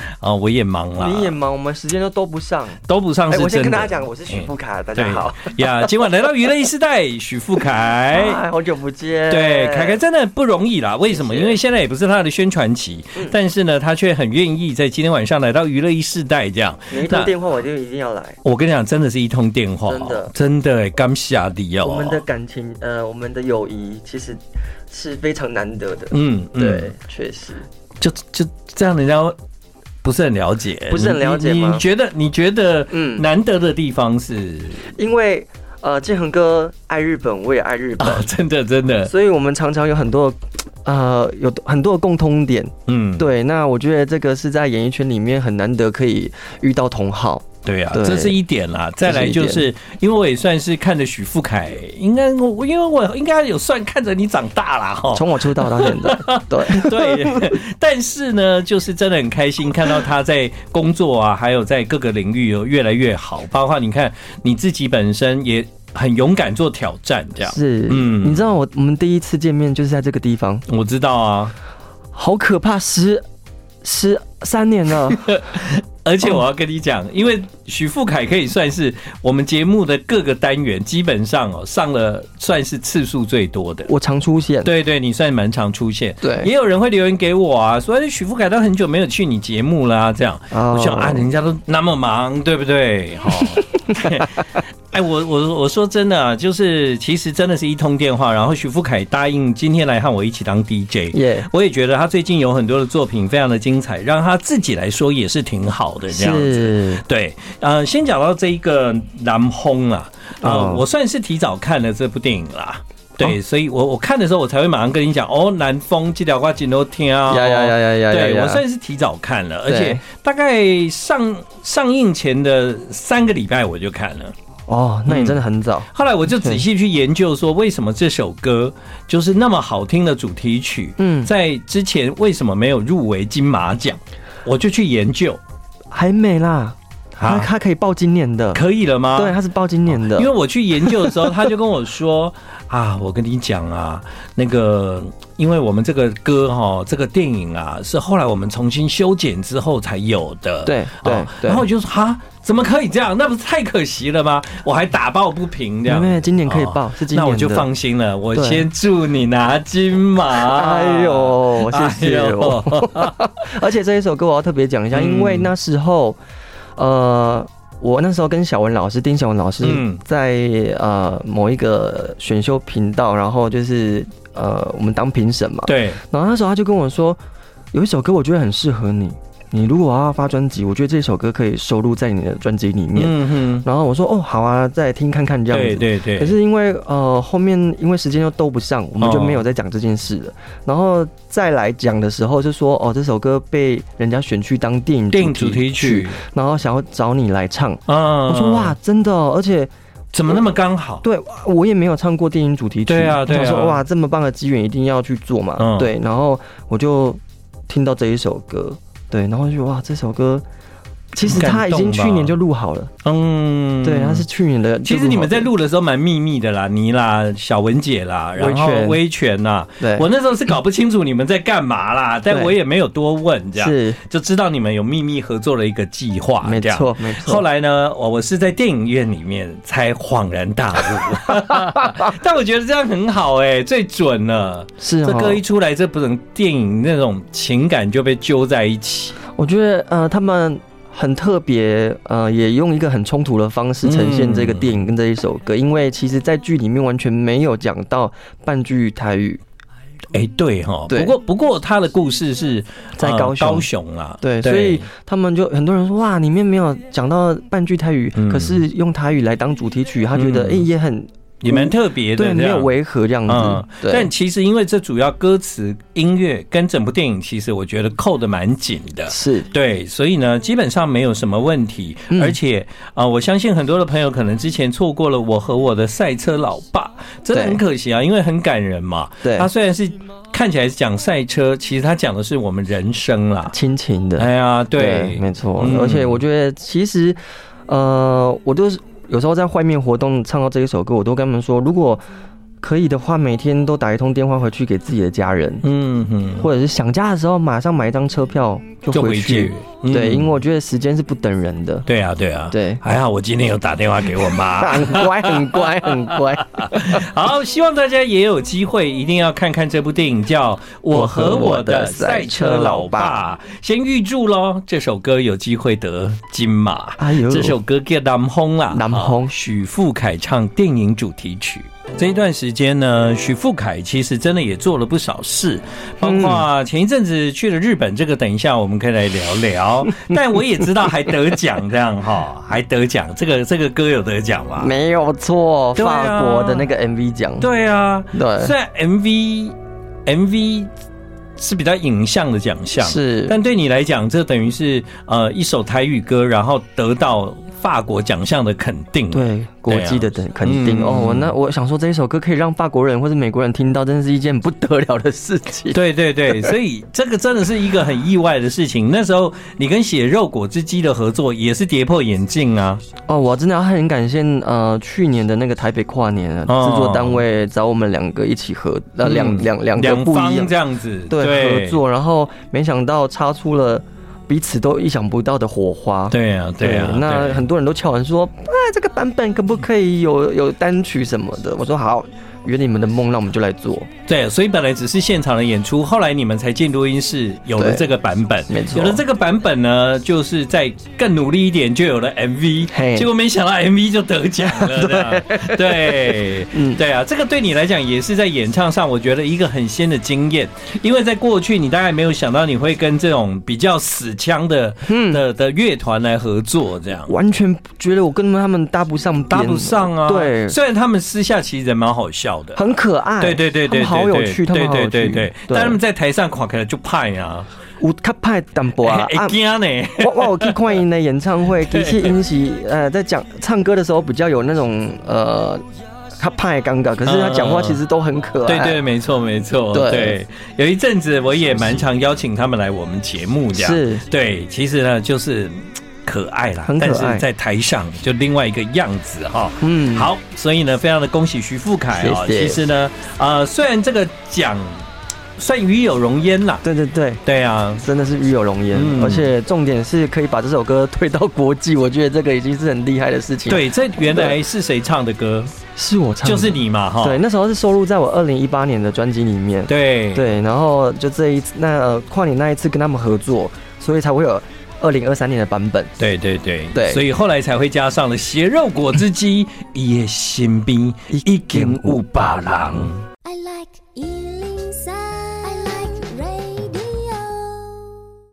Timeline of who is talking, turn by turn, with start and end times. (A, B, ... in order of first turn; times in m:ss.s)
0:00.2-0:01.3 A
0:01.0-0:06.1 B
0:02.8-0:08.4 A
0:08.1-0:10.0 B
0:09.3-0:17.3 A
0:11.1-0:11.6 B
0:16.9-0:18.4 B
0:18.4-0:22.2 A
0:19.9-0:20.3 B
0:21.8-0:27.7 B
0:26.1-0:26.9 A
0:28.0-0:29.4 A
0:30.0-0:34.9 A
0:30.9-0:31.8 B
0:32.9-0:33.2 B
0:34.9-0:38.3 B
0:38.0-0:39.1 A
0:39.0-0:48.4 B
0:42.9-0:43.2 A
0:47.6-1:08.4 A
0:49.0-0:49.6 B
0:55.1-0:57.6 B
1:07.5-1:10.6 B
1:10.7-1:11.5 A
1:12.1-1:13.2 B
1:13.8-1:15.3 B
1:15.1-1:23.9 A
1:23.9-1:24.7 B
1:24.6-2:04.3 A
1:26.2-1:26.5 B
1:30.5-1:31.3 B
1:33.4-1:34.1 B
1:41.1-1:41.5 B
1:46.1-1:47.0 B
1:50.4-1:50.8 B
1:57.3-1:58.6 B
1:59.7-2:00.0 B
2:04.7-2:06.6 B
2:05.1-2:15.4 A
2:11.0-2:11.3 B
2:15.9-2:18.6 B
2:17.2-2:17.5 A
2:18.5-2:19.4 A
2:19.1-2:20.3 B
2:20.0-2:43.2 A
2:20.8-2:21.3 B
2:30.6-2:31.7 B
2:35.9-2:37.7 B
2:38.3-2:38.6 B
2:40.3-2:46.2 B
2:44.9-2:45.5 A
2:46.8-2:57.2 B
2:49.6-2:50.0 A
2:55.7-2:56.0 A
2:57.7-3:19.7 B
3:03.0-3:03.6 A
3:05.5-3:06.3 A
3:09.0-3:09.4 A
3:15.1-3:16.2 A
3:17.9-3:18.8 A
3:20.1-3:21.0 A
3:21.0-3:30.4 B
3:22.9-3:23.8 A
3:25.6-3:25.9 A
3:31.1-3:32.9 B
3:31.2-3:32.4 A
3:33.0-3:34.2 A
3:33.8-3:35.5 B
3:34.8-3:59.2 A
3:38.4-3:39.0 B
3:39.8-3:40.1 B
3:42.3-3:42.5 B
3:43.6-3:44.0 B
3:46.4-3:47.4 B
3:51.4-3:51.9 B
3:54.8-3:55.4 B
3:59.3-4:09.4 B
4:03.8-4:04.8 A
4:10.1-4:14.9 A
4:13.0-4:13.7 B
4:14.2-4:24.1 B
4:18.1-4:18.6 A
4:20.1-4:20.7 A
4:21.4-4:22.7 A
4:23.3-4:43.5 A
4:29.1-4:29.5 B
4:32.1-4:32.4 B
4:37.3-4:37.6 B
4:39.2-4:39.5 B
4:43.5-4:52.0 B
4:44.2-4:46.2 A
4:52.6-4:55.6 B
4:55.6-4:56.5 A
4:56.4-5:01.8 B
4:58.9-5:00.3 A
5:01.8-5:34.7 A
5:02.5-5:02.8 B
5:04.3-5:07.0 B
5:10.9-5:13.2 B
5:17.0-5:17.6 B
5:18.7-5:19.3 B
5:26.0-5:26.5 B
5:30.0-5:30.6 B
5:34.6-5:37.5 B
5:35.7-5:36.7 A
5:37.4-5:40.7 A
5:38.1-5:38.5 B
5:41.4-5:51.3 A
5:42.8-5:43.4 B
5:49.1-5:55.8 B
5:55.7-6:02.8 A
6:03.1-6:10.5 B
6:06.5-6:07.2 A
6:09.0-6:11.8 A
6:11.1-6:23.9 B
6:16.1-6:17.4 A
6:24.1-6:47.1 A
6:27.6-6:27.9 B
6:28.5-6:29.0 B
6:32.7-6:33.1 B
6:34.4-6:36.8 B
6:44.8-6:45.2 B
6:47.1-6:50.6 B
6:49.3-6:52.6 A
6:52.6-6:55.8 B
6:53.2-6:57.5 A
6:57.8-6:59.4 B
6:58.8-7:00.7 A
7:00.0-7:05.6 B
7:01.6-7:02.1 A
7:06.1-7:08.8 B
7:07.0-7:07.8 A
7:08.4-7:24.8 A
7:09.7-7:10.2 B
7:13.5-7:14.0 B
7:16.6-7:17.2 B
7:19.6-7:20.1 B
7:22.0-7:22.6 B
7:25.4-7:26.6 A
7:26.6-7:27.2 B
7:27.2-7:27.8 A
7:27.8-7:34.4 B
7:28.7-7:29.3 A
7:33.5-7:35.5 A
7:35.7-7:45.9 B
7:36.2-7:37.2 A
7:39.7-7:40.3 A
7:46.0-7:53.0 A
7:46.7-7:47.0 B
7:51.1-7:52.9 B
7:53.2-7:57.9 C